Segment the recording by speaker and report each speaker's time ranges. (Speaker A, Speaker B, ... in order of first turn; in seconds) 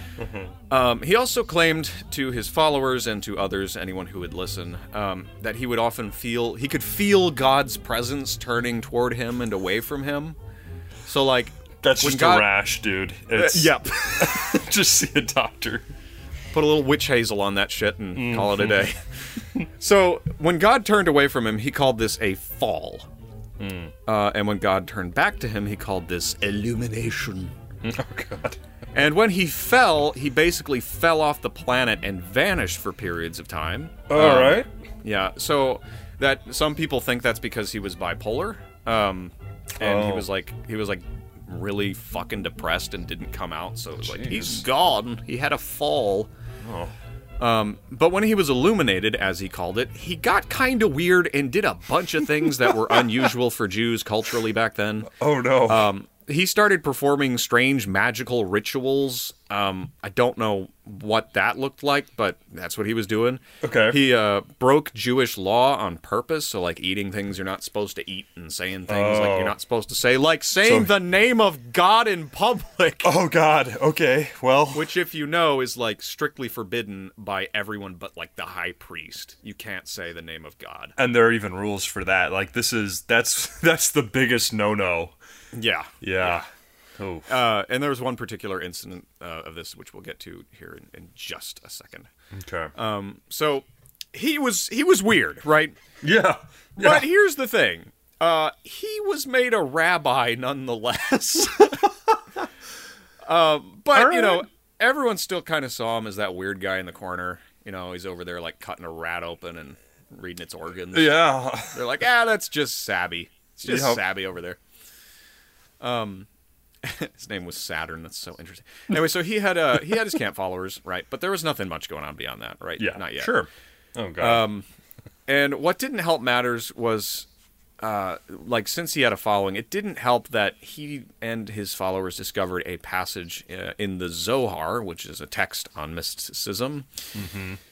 Speaker A: 0.2-0.5, 11.8-15.8, 18.1-18.9, 23.6-23.9, 27.8-28.6, 34.1-34.7, 39.8-40.3, 44.0-44.6, 46.6-46.9, 55.1-55.9, 63.6-64.0, 68.9-69.6, 70.6-70.9, 73.0-74.9, 81.0-85.1, 86.0-86.5, 87.0-87.3, 92.3-92.7, 96.0-97.1, 103.9-104.4, 110.9-111.8, 113.6-114.0, 122.8-124.5, 137.1-137.6
Speaker B: 0.7-10.4, 11.1-12.5, 13.3-14.3, 16.5-19.0, 19.8-23.1, 24.1-27.5, 28.9-46.3, 47.4-55.1, 55.6-73.1, 74.7-80.9, 85.5-85.9, 87.3-92.1, 92.7-95.8, 96.8-101.9, 103.2-114.6, 115.8-116.3, 116.8-123.4, 124.2-124.7, 125.3-127.3, 127.8-136.9